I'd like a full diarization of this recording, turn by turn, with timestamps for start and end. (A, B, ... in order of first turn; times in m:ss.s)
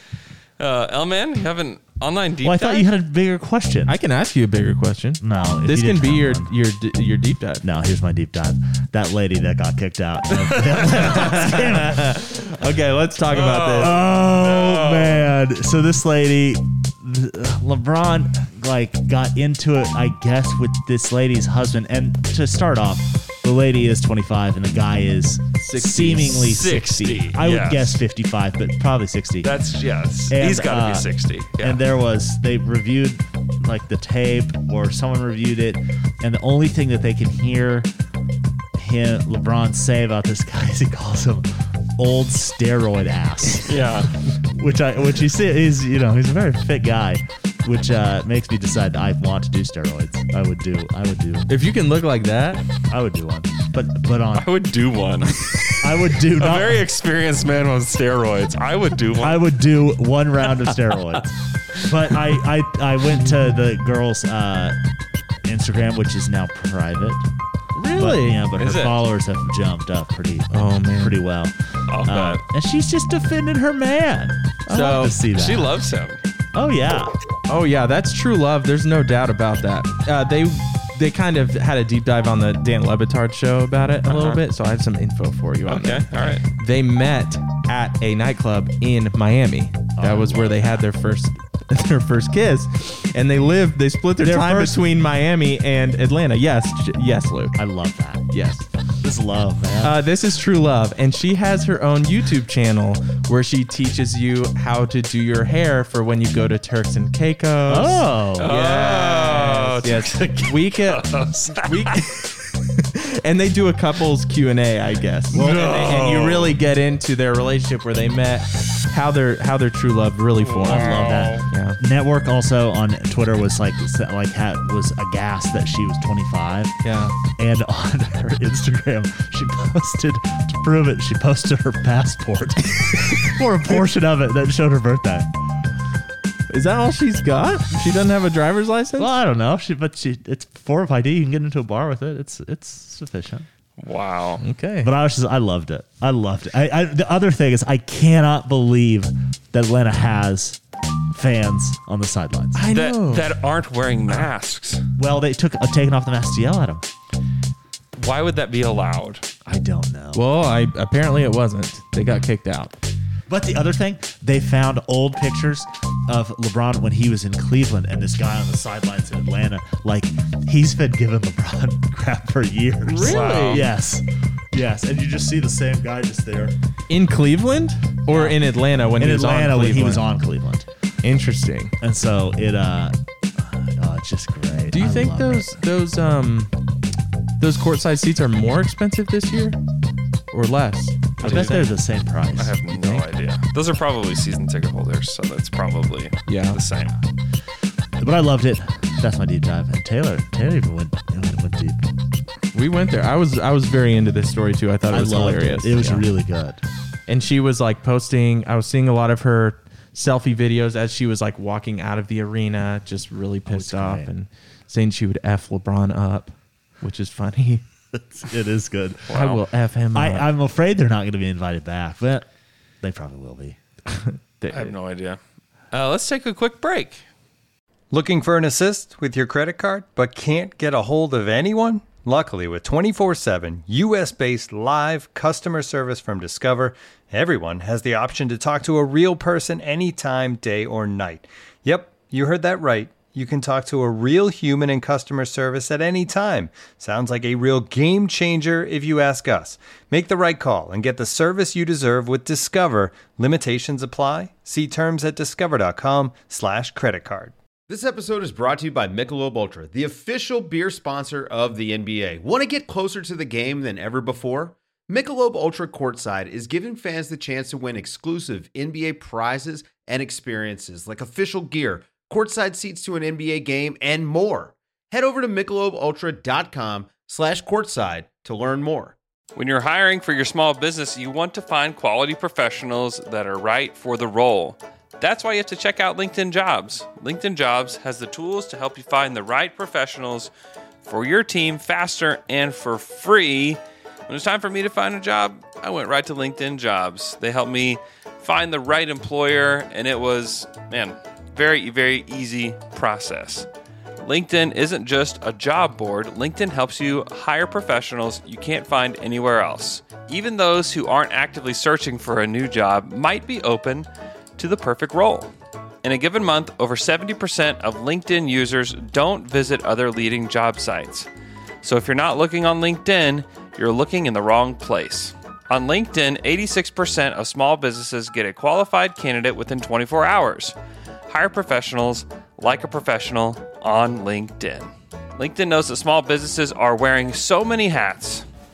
0:00.6-0:02.9 A
0:02.4-0:04.0 B
0:03.9-0:07.6 C
0:05.2-0:06.5 B
0:07.6-0:12.2 B
0:10.4-0:11.4 A
0:11.0-0:14.0 C
0:13.3-0:15.3 A
0:13.7-0:29.5 B
0:25.6-0:26.6 C
0:26.4-0:28.0 A
0:29.4-0:31.8 A
0:30.3-0:31.1 B
0:31.6-0:37.9 B
0:38.8-0:51.5 B
0:43.7-0:44.1 A
0:51.5-0:52.6 C
0:52.9-0:54.5 B
0:54.4-0:59.4 A
0:55.8-0:56.8 B
0:59.2-1:04.8 B
1:05.4-1:07.2 B
1:07.8-1:08.4 C
1:08.0-1:15.8 B
1:08.6-1:09.0 A
1:10.5-1:11.2 C
1:11.9-1:12.4 A
1:14.7-1:15.2 C
1:15.3-1:16.2 A
1:16.5-1:17.2 B
1:17.5-1:37.6 C
1:24.1-1:24.4 A
1:25.7-1:26.4 A
1:30.0-1:30.8 B
1:34.2-1:34.8 B
1:37.6-1:38.3 B
1:38.3-1:38.6 C
1:39.0-1:40.0 B
1:39.8-2:01.8 C
1:47.7-1:48.5 B
1:48.4-1:52.0 A
1:55.3-1:56.4 B
1:55.3-1:56.5 A
2:00.4-2:01.4 A
2:00.6-2:15.3 B
2:06.8-2:07.2 C
2:16.5-2:19.1 C
2:19.0-2:23.5 B
2:23.8-2:24.4 A
2:24.4-2:24.9 C
2:24.8-2:30.6 B
2:31.1-2:32.6 B
2:32.6-2:33.3 C
2:32.7-2:34.8 A
2:35.0-2:36.8 B
2:38.0-2:39.3 A
2:39.4-2:40.2 B
2:40.2-2:42.7 C
2:43.3-2:56.6 B
2:52.9-2:53.6 C
2:53.0-2:53.7 A
2:56.9-3:00.0 C
2:58.1-2:58.4 B
2:59.0-3:00.7 B
3:01.0-3:01.7 C
3:01.8-3:05.6 B
3:04.7-3:06.5 C
3:07.4-3:09.6 C
3:10.3-3:11.7 C
3:11.2-3:12.6 B
3:11.2-3:11.6 A
3:12.4-3:17.0 A
3:12.7-3:13.0 C
3:16.3-3:16.6 C
3:18.0-3:21.9 B
3:22.5-3:26.0 C
3:24.9-3:26.6 B
3:27.1-3:37.6 C
3:33.5-3:34.1 B
3:37.9-3:39.1 B
3:39.1-3:39.4 A
3:39.1-3:40.3 C
3:39.9-3:42.3 B
3:42.8-3:43.6 B
3:43.9-3:44.7 C
3:44.5-3:45.2 A
3:45.7-3:47.0 A
3:47.9-4:17.3 D
4:17.7-4:39.0 E
4:39.4-4:50.3 A
4:50.8-5:03.5 A
5:04.0-5:15.3 A
5:15.8-5:21.1 A
5:21.6-5:30.6 A
5:31.1-5:38.3 A